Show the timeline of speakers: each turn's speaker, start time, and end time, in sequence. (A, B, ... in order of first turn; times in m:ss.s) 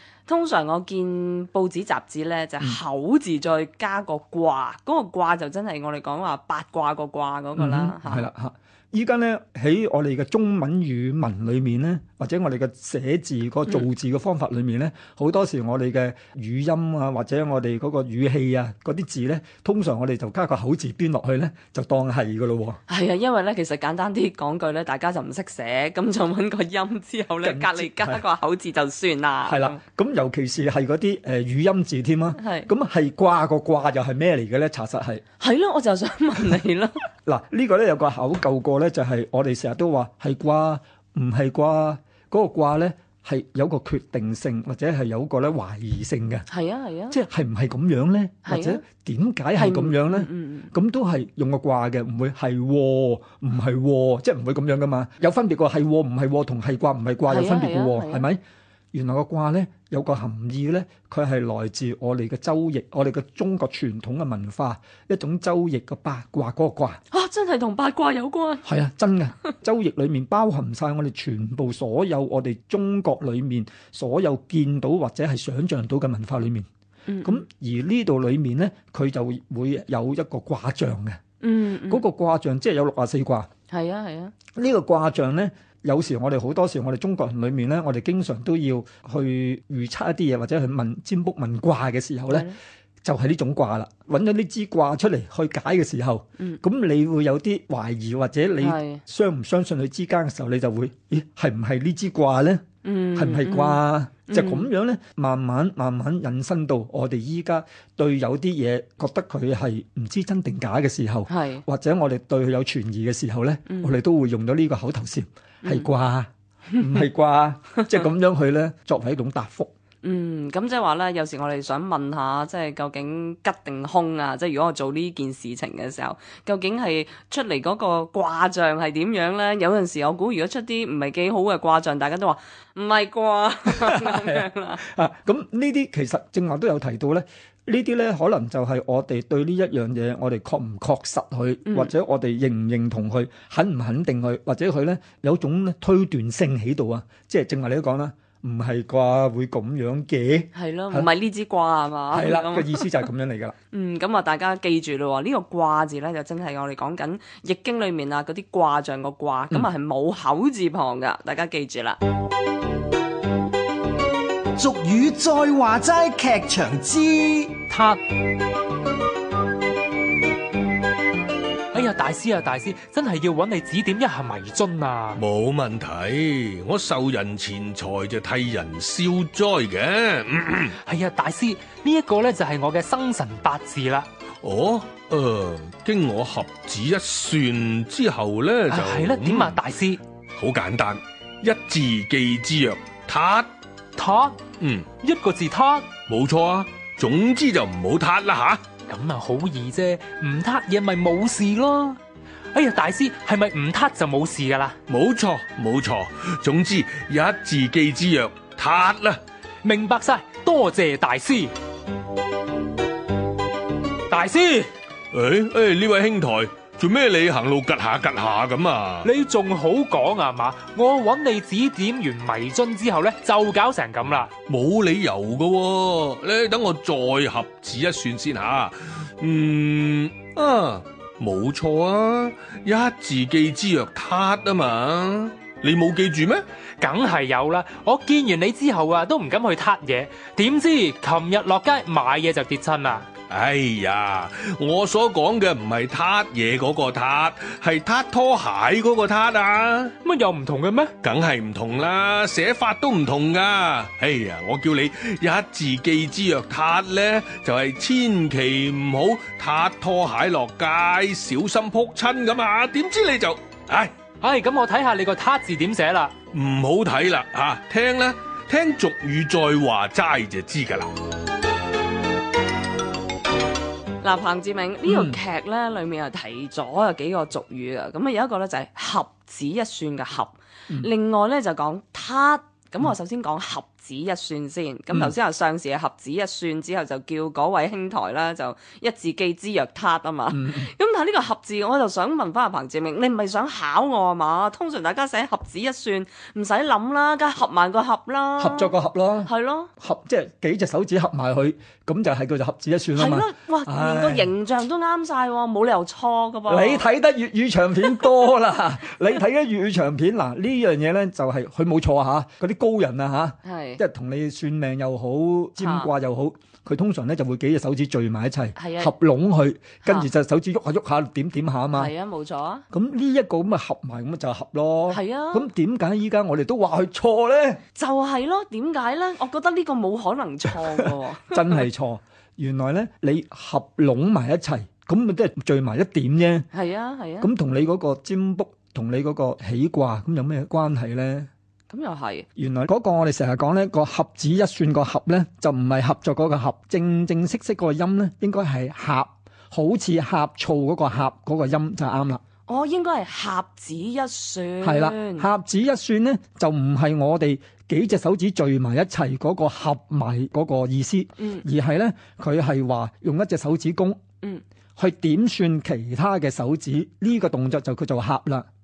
0:00.3-0:08.3 A
0:07.6-0:22.8 B
0:22.9-0:29.8 A
0:27.4-0:28.2 B
0:29.5-0:35.2 B
0:32.4-0:32.7 A
0:35.4-0:37.0 A
0:37.2-0:46.4 B
0:46.5-0:47.2 A
0:47.1-0:58.4 B
0:48.4-0:48.8 A
0:49.6-0:50.7 A
0:57.3-0:58.2 A
0:58.9-1:07.0 B
1:07.1-1:08.7 A
1:08.6-1:16.7 B
1:17.1-1:17.4 A
1:17.2-1:21.2 B
1:21.4-1:22.0 A
1:21.9-1:23.5 B
1:23.7-1:24.3 A
1:24.5-1:32.5 B
1:32.3-1:32.6 A
1:33.0-1:42.6 B
1:38.6-1:39.0 A
1:42.8-1:44.7 A
1:43.2-1:59.7 B
1:51.3-1:51.6 A
1:53.7-1:53.9 A
2:00.0-2:14.8 A
2:13.7-2:31.1 B
2:21.7-2:21.9 A
2:30.5-2:32.9 A
2:32.1-2:33.6 B
2:33.7-2:42.0 A
2:44.6-2:47.7 C
2:47.7-2:48.0 D
2:51.7-2:55.2 D
2:55.2-3:00.7 E
3:00.8-3:04.1 D
3:04.4-3:09.6 E
3:08.7-3:10.0 D
3:10.4-3:13.5 E
3:14.0-3:14.4 D
3:14.6-3:14.9 E
3:15.0-3:16.0 D
3:16.1-3:18.7 E
3:18.9-3:22.0 D
3:22.5-3:24.8 D
3:24.9-3:29.2 E
3:29.6-3:31.5 D
3:34.1-3:34.7 D
3:35.1-3:39.1 E
3:39.0-3:44.3 D
3:44.5-3:56.4 E
3:56.8-4:03.1 D
4:03.3-4:09.9 E
4:10.0-4:10.9 D
4:11.0-4:23.9 E
4:24.2-4:26.2 D
4:26.3-4:30.9 E
4:34.0-4:58.7 A
4:34.9-4:35.2 B
4:50.3-4:50.7 B
4:58.4-5:04.3 B
4:59.2-4:59.7 A
5:03.0-5:06.8 A
5:06.5-5:21.9 B
5:13.4-5:13.8 A
5:15.6-5:15.9 A
5:18.6-5:18.9 A
5:19.8-5:20.1 A
5:21.7-5:22.6 A
5:22.7-5:27.6 B
5:24.9-5:25.5 A
5:27.8-5:31.6 A
5:30.8-5:36.5 B
5:36.5-5:37.3 A
5:37.2-5:41.3 B
5:41.7-5:42.3 A
5:42.4-5:52.2 B
5:52.5-5:55.3 A
5:54.6-6:04.0 B
6:01.2-6:01.4 A
6:04.8-6:08.5 B